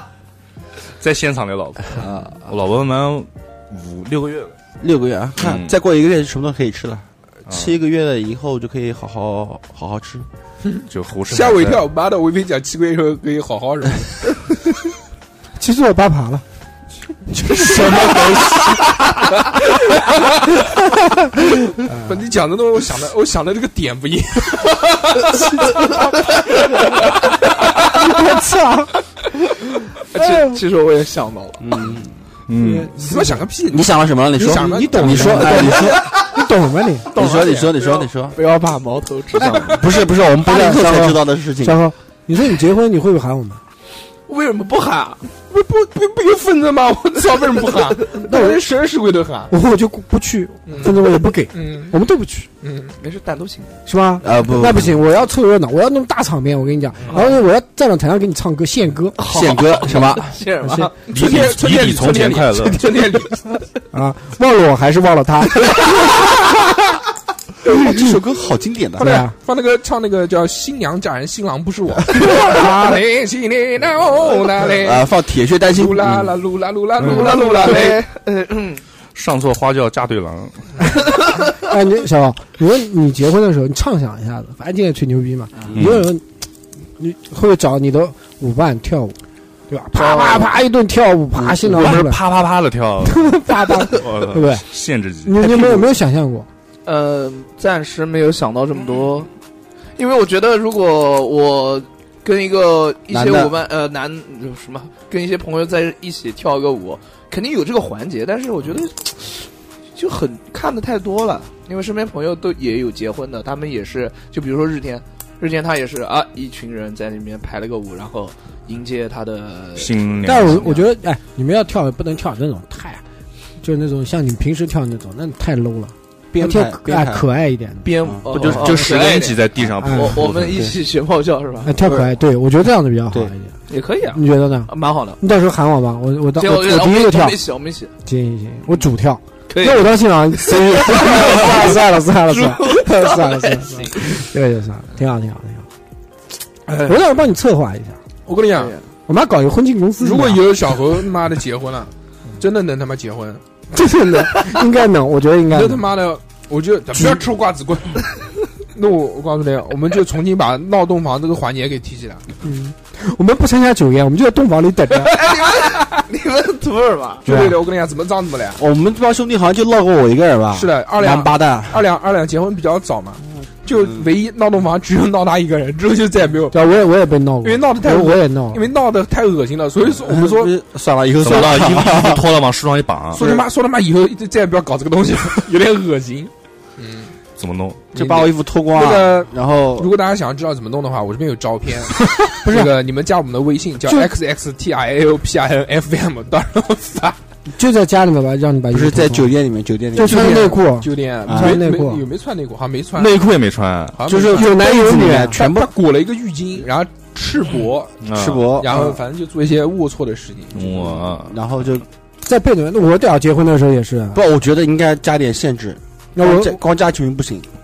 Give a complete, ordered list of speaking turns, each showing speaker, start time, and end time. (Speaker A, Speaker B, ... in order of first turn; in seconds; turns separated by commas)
Speaker A: 1.0-4.5, Speaker B: 2.0-2.5, Speaker C: 4.8-10.2, Speaker A: 5.4-5.8, Speaker A: 7.5-7.7, Speaker D: 10.6-14.2, Speaker A: 10.9-11.8, Speaker E: 15.6-16.4, Speaker E: 17.5-18.4, Speaker C: 17.6-18.6, Speaker E: 21.7-22.2, Speaker D: 22.0-25.5, Speaker B: 26.6-26.8, Speaker E: 27.9-29.0, Speaker B: 30.1-31.9, Speaker E: 30.1-30.6, Speaker C: 31.6-32.1, Speaker A: 32.5-32.9, Speaker E: 32.6-33.4, Speaker D: 32.9-35.7, Speaker C: 33.7-36.1, Speaker E: 34.4-37.1, Speaker B: 35.6-36.3, Speaker B: 37.1-40.0, Speaker C: 37.1-38.4, Speaker C: 39.5-41.8, Speaker E: 40.4-43.6, Speaker B: 44.3-45.2, Speaker D: 45.5-49.5, Speaker E: 48.2-48.7, Speaker E: 49.5-52.5, Speaker D: 50.7-51.0, Speaker D: 51.5-51.9, Speaker D: 52.6-53.0, Speaker B: 53.0-53.8, Speaker E: 53.9-59.2, Speaker C: 54.2-55.0, Speaker B: 57.1-57.4, Speaker B: 59.2-61.1, Speaker C: 59.2-60.4, Speaker E: 60.6-60.9, Speaker A: 61.1-62.8, Speaker D: 61.1-63.6, Speaker E: 63.9-66.5, Speaker C: 67.6-69.1, Speaker E: 67.6-68.2, Speaker E: 69.0-69.3, Speaker D: 69.0-75.1, Speaker E: 72.3-73.0, Speaker C: 74.6-76.3, Speaker D: 75.7-78.0, Speaker B: 77.0-78.8, Speaker A: 79.1-80.8, Speaker E: 81.5-86.2, Speaker A: 85.7-86.1, Speaker E: 87.0-89.2, Speaker E: 89.7-92.2, Speaker B: 89.9-90.5, Speaker A: 91.5-95.8, Speaker E: 93.0-94.7, Speaker E: 95.2-96.5, Speaker B: 96.8-99.3, Speaker B: 100.0-120.8, Speaker C: 103.1-103.5, Speaker A: 119.7-120.7, Speaker E: 120.2-123.0, Speaker E: 123.6-127.9, Speaker C: 126.3-127.2, Speaker B: 127.8-131.7, Speaker C: 128.0-128.7, Speaker A: 128.3-130.6, Speaker E: 129.8-130.2, Speaker C: 130.2-130.7, Speaker E: 131.6-133.5, Speaker C: 131.8-132.1, Speaker B: 133.7-135.2, Speaker E: 134.1-137.4, Speaker B: 136.3-137.9, Speaker E: 138.0-145.7, Speaker B: 139.5-141.8, Speaker B: 142.3-144.1, Speaker D: 146.7-146.9, Speaker E: 146.8-148.0, Speaker D: 148.2-148.7, Speaker B: 148.6-148.8, Speaker E: 149.1-150.5, Speaker D: 150.0-153.4, Speaker E: 153.7-155.9, Speaker D: 155.5-158.1, Speaker E: 156.9-157.2, Speaker D: 158.7-162.2, Speaker E: 162.4-165.2, Speaker B: 165.0-167.2, Speaker C: 167.2-167.6, Speaker D: 167.2-168.6, Speaker C: 168.6-171.8, Speaker D: 170.5-176.6, Speaker C: 173.7-174.1, Speaker E: 176.5-178.6, Speaker D: 177.4-180.5, Speaker C: 179.9-182.3, Speaker A: 181.2-183.2, Speaker D: 183.1-187.1, Speaker C: 183.2-183.4, Speaker A: 187.4-187.9, Speaker C: 187.9-189.9, Speaker D: 187.9-197.2, Speaker E: 192.4-192.7, Speaker E: 197.5-199.3, Speaker C: 198.7-200.6, Speaker E: 199.9-202.0, Speaker D: 200.0-203.2, Speaker C: 201.2-201.6, Speaker A: 203.0-204.0, Speaker D: 203.9-207.9, Speaker C: 204.0-205.7, Speaker E: 204.3-205.4, Speaker A: 208.0-208.4, Speaker C: 208.1-209.0, Speaker D: 208.6-210.9, Speaker A: 210.5-211.4, Speaker C: 211.3-211.8, Speaker E: 212.2-214.2, Speaker C: 214.1-217.5, Speaker E: 216.2-216.6